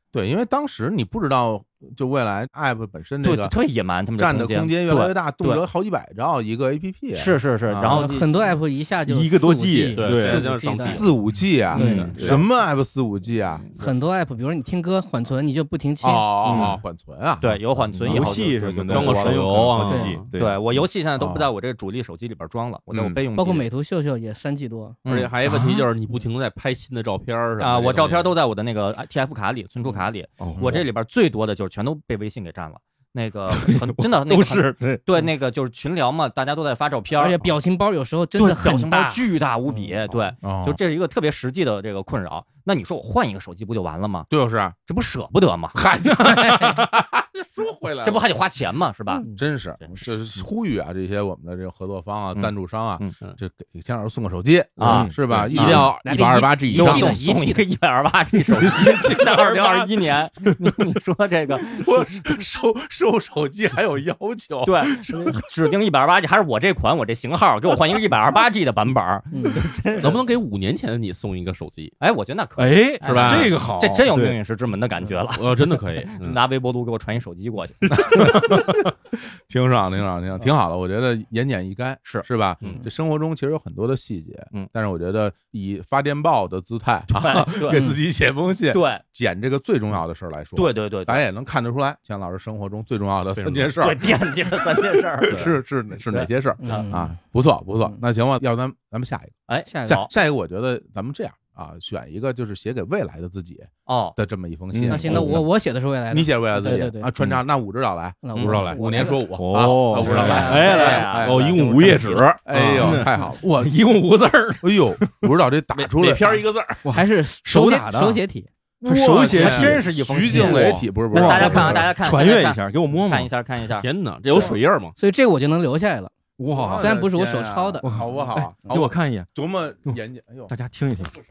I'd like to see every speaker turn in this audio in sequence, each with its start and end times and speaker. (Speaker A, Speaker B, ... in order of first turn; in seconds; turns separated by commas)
Speaker A: 0.1-3.5, Speaker B: 3.2-5.6, Speaker A: 4.2-7.9, Speaker B: 7.1-8.4, Speaker C: 7.8-11.0, Speaker D: 9.1-10.5, Speaker E: 9.9-11.1, Speaker A: 10.8-13.9, Speaker D: 11.7-12.4, Speaker C: 11.7-12.4, Speaker E: 11.8-12.4, Speaker C: 13.8-16.3, Speaker A: 16.0-18.4, Speaker D: 16.4-16.8, Speaker B: 17.4-19.4, Speaker D: 18.0-20.6, Speaker E: 18.1-20.3, Speaker C: 19.9-20.2, Speaker B: 20.4-23.7, Speaker A: 21.2-21.5, Speaker A: 22.9-23.2, Speaker C: 23.3-25.0, Speaker B: 25.1-25.3, Speaker E: 25.1-28.3, Speaker B: 27.6-37.4, Speaker D: 30.4-30.8, Speaker D: 33.5-35.0, Speaker C: 37.1-39.2, Speaker B: 38.4-44.3, Speaker A: 40.4-40.8, Speaker A: 44.3-44.8, Speaker B: 44.9-45.8, Speaker A: 45.7-48.2, Speaker B: 48.0-49.2, Speaker A: 49.3-57.1, Speaker B: 52.3-53.1, Speaker B: 54.8-55.9, Speaker D: 54.8-55.1, Speaker C: 55.5-57.6, Speaker B: 56.7-62.4, Speaker D: 58.6-59.4, Speaker A: 61.6-65.3, Speaker B: 64.6-70.2, Speaker C: 69.3-69.6, Speaker E: 70.0-71.9, Speaker B: 72.0-78.4, Speaker D: 72.6-74.4, Speaker E: 73.0-73.7, Speaker E: 75.3-76.4, Speaker A: 77.9-78.9, Speaker A: 79.5-94.1, Speaker B: 82.0-82.8, Speaker B: 87.1-87.9, Speaker C: 87.7-88.0, Speaker B: 88.7-89.0, Speaker B: 90.5-91.2, Speaker E: 93.4-93.7, Speaker B: 93.8-95.6, Speaker A: 95.2-105.5, Speaker B: 96.1-96.9, Speaker C: 96.6-97.2, Speaker B: 99.5-100.1, Speaker C: 99.7-100.0, Speaker B: 103.8-104.2, Speaker D: 104.7-105.4, Speaker C: 104.9-107.1, Speaker A: 106.1-113.7, Speaker C: 108.2-109.2, Speaker E: 108.3-108.8, Speaker D: 108.5-108.8, Speaker D: 109.3-110.8, Speaker E: 110.0-113.0, Speaker C: 110.1-110.9, Speaker B: 110.2-112.2, Speaker D: 112.5-115.2, Speaker A: 114.6-116.4, Speaker E: 115.7-116.8, Speaker D: 116.8-118.2, Speaker C: 116.9-118.5, Speaker A: 118.8-121.9, Speaker D: 118.8-123.3, Speaker B: 119.3-124.5, Speaker E: 123.8-124.9, Speaker C: 125.0-127.9, Speaker D: 126.4-126.9, Speaker A: 126.5-130.5, Speaker D: 127.8-129.3, Speaker D: 129.9-131.1